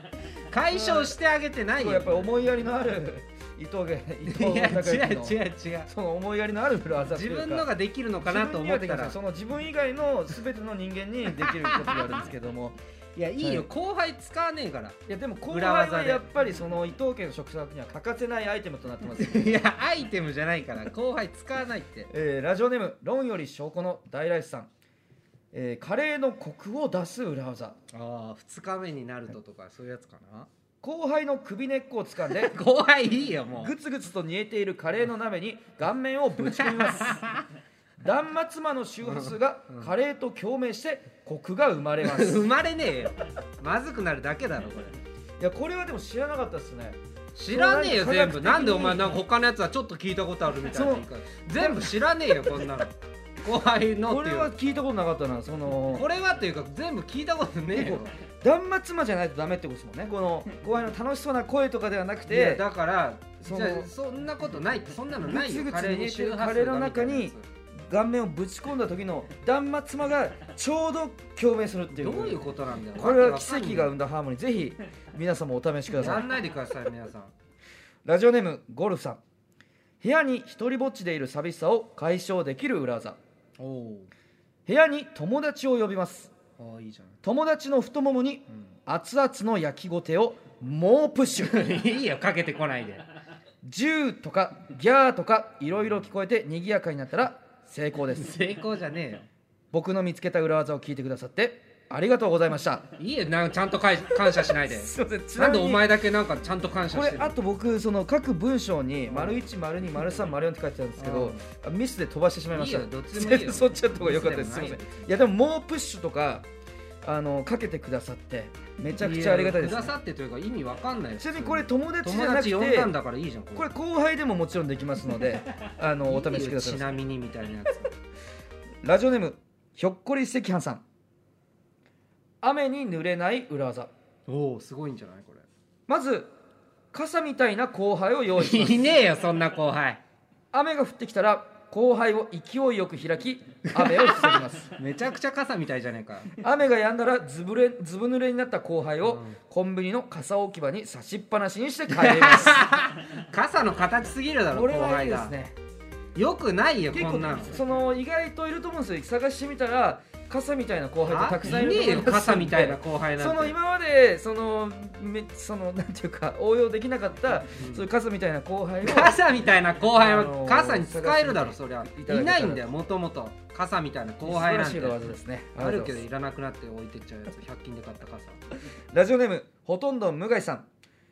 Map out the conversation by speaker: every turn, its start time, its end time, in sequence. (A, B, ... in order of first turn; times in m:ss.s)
0:00.4-0:02.3 A
0:00.7-0:01.2 B
0:01.8-0:07.7 B
0:04.2-0:05.9 A
0:07.1-0:09.2 A
0:08.2-0:12.8 B
0:11.4-0:12.1 A
0:13.2-0:15.0 A
0:13.4-0:13.7 B
0:15.1-0:19.6 B
0:15.5-0:16.3 A
0:19.1-0:22.1 A
0:22.1-0:24.7 B
0:25.5-0:27.8 B
0:27.9-0:30.5 A
0:30.8-0:32.5 B
0:32.3-0:33.7 A
0:33.6-0:37.2 B
0:36.4-0:37.5 A
0:38.0-0:42.4 B
0:39.0-0:39.9 A
0:42.0-0:45.0 A
0:45.4-0:49.2 B
0:47.4-0:54.5 A
0:50.7-0:52.7 B
0:54.0-0:56.1 B
0:55.9-0:58.2 A
0:57.7-1:02.6 B
1:02.3-1:07.4 A
1:03.4-1:03.9 B
1:05.2-1:12.4 B
1:12.0-1:13.9 A
1:12.9-1:16.3 B
1:15.9-1:17.3 A
1:18.0-1:19.2 B
1:20.0-1:23.2 B
1:23.6-1:24.1 A
1:24.6-1:26.3 B
1:26.6-1:27.2 A
1:27.2-1:31.6 B
1:31.4-1:33.0 A
1:33.6-1:38.4 B
1:38.1-1:39.3 A
1:39.7-1:42.8 B
1:43.0-1:47.4 A
1:44.4-1:45.9 B
1:46.9-1:56.4 B
1:49.1-1:49.4 A
1:51.0-1:51.5 A
1:52.5-1:55.1 A
1:57.0-1:59.9 B
1:59.0-2:03.7 A
2:01.2-2:02.9 B
2:03.5-2:06.9 B
2:06.1-2:07.9 A
2:08.8-2:10.8 B
2:12.4-2:13.9 B
2:14.3-2:15.4 A
2:15.9-2:16.3 B
2:16.9-2:18.9 B
2:18.4-2:20.0 A
2:20.5-2:24.7 B
2:23.6-2:26.3 A
2:26.3-2:32.7 B
2:29.0-2:29.4 A
2:31.9-2:35.3 A
2:34.5-2:35.5 B
2:36.1-2:37.5 A
2:36.9-2:49.2 B
2:41.1-2:43.5 A
2:47.6-2:47.8 A
2:48.8-2:55.0 A
2:49.9-2:52.7 B
2:54.2-2:56.0 B
2:55.6-2:58.4 A
2:58.9-3:00.7 B